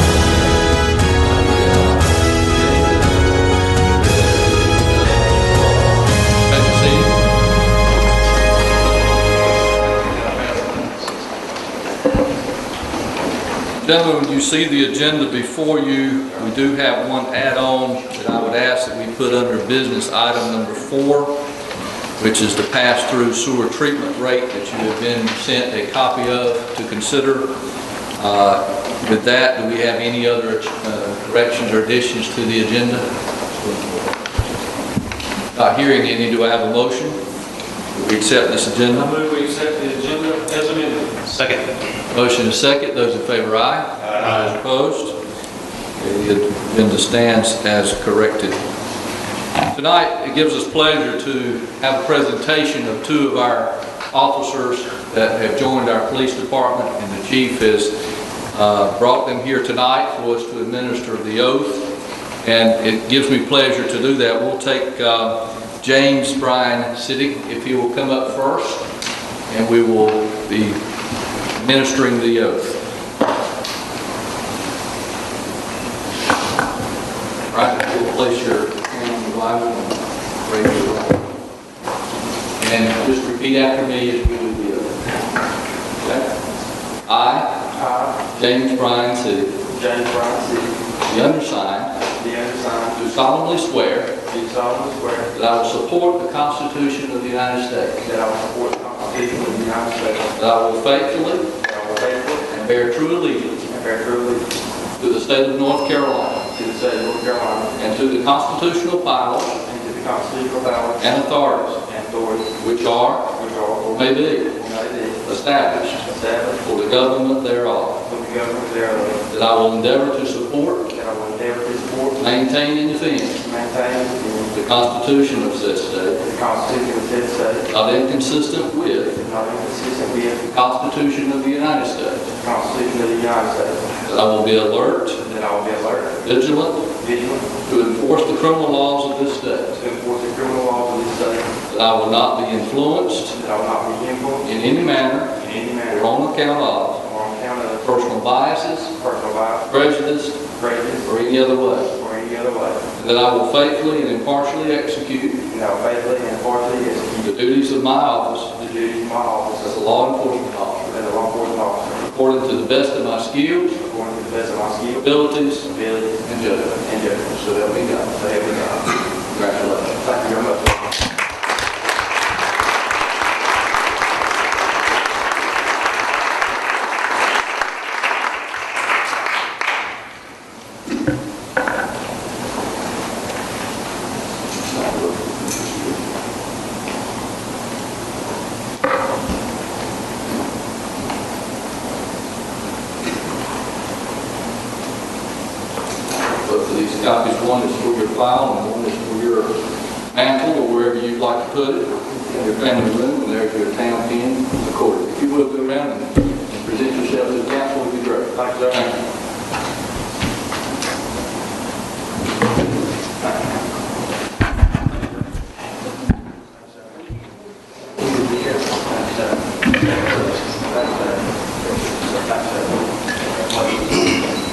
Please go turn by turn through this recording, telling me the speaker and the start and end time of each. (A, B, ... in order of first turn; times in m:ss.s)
0:01.2-0:03.4 A
0:04.0-0:05.9 A
0:06.5-0:07.2 A
0:10.0-0:11.4 B
0:13.8-0:21.4 A
0:22.2-0:27.6 A
0:28.2-0:33.1 A
0:35.5-0:37.2 A
0:37.9-0:39.1 A
0:39.1-0:41.6 B
0:42.1-0:45.2 A
0:46.0-0:48.6 A
0:49.7-0:58.0 A
0:58.5-1:08.8 A
1:09.5-1:10.8 A
1:11.6-1:12.8 A
1:17.5-1:21.4 A
1:22.6-1:25.0 A
1:26.0-1:26.3 A
1:27.1-1:27.6 A
1:27.7-1:28.2 C
1:28.3-1:29.6 A
1:29.7-1:30.8 C
1:31.0-1:32.0 A
1:32.2-1:33.0 C
1:33.0-1:34.2 A
1:34.3-1:35.3 C
1:35.3-1:38.0 A
1:38.0-1:40.3 C
1:40.3-1:41.5 A
1:41.6-1:42.5 C
1:42.5-1:43.7 A
1:43.7-1:44.5 C
1:45.0-1:46.5 A
1:46.5-1:47.8 C
1:47.8-1:49.6 A
1:49.6-1:51.2 C
1:51.0-1:51.8 A
1:51.8-1:52.5 C
1:52.6-1:53.4 A
1:53.4-1:55.2 C
1:53.9-1:54.6 A
1:55.2-1:56.1 A
1:56.0-1:56.6 C
1:56.6-1:58.0 A
1:58.0-1:59.2 C
1:59.3-2:00.9 A
2:00.9-2:02.2 C
2:02.2-2:03.4 A
2:03.4-2:04.5 C
2:04.5-2:06.2 A
2:06.2-2:07.7 C
2:07.7-2:09.2 A
2:09.1-2:10.5 C
2:10.5-2:12.3 A
2:12.4-2:13.9 C
2:14.0-2:15.2 A
2:15.2-2:16.2 C
2:16.2-2:16.9 A
2:17.0-2:17.5 C
2:17.7-2:19.8 A
2:19.8-2:21.5 C
2:21.7-2:23.4 A
2:23.3-2:24.5 C
2:24.4-2:27.0 A
2:25.4-2:26.1 C
2:27.0-2:27.9 C
2:27.8-2:29.0 A
2:29.0-2:29.7 C
2:29.7-2:30.4 A
2:30.6-2:31.1 C
2:31.0-2:31.9 A
2:31.9-2:32.8 C
2:33.0-2:35.4 A
2:35.5-2:37.3 C
2:37.2-2:38.6 A
2:38.6-2:39.8 C
2:39.6-2:41.1 A
2:40.9-2:42.1 C
2:42.0-2:43.8 A
2:43.8-2:45.1 C
2:44.9-2:45.7 A
2:45.7-2:47.3 C
2:46.2-2:46.8 A
2:47.3-2:48.2 A
2:48.1-2:48.9 C
2:49.3-2:50.0 A
2:50.0-2:50.9 C
3:04.7-3:06.0 A
3:16.4-3:19.6 A
3:20.1-3:29.0 A
3:28.3-3:28.9 C
3:40.6-3:41.2 C
3:42.1-3:42.8 C
3:43.5-3:43.9 C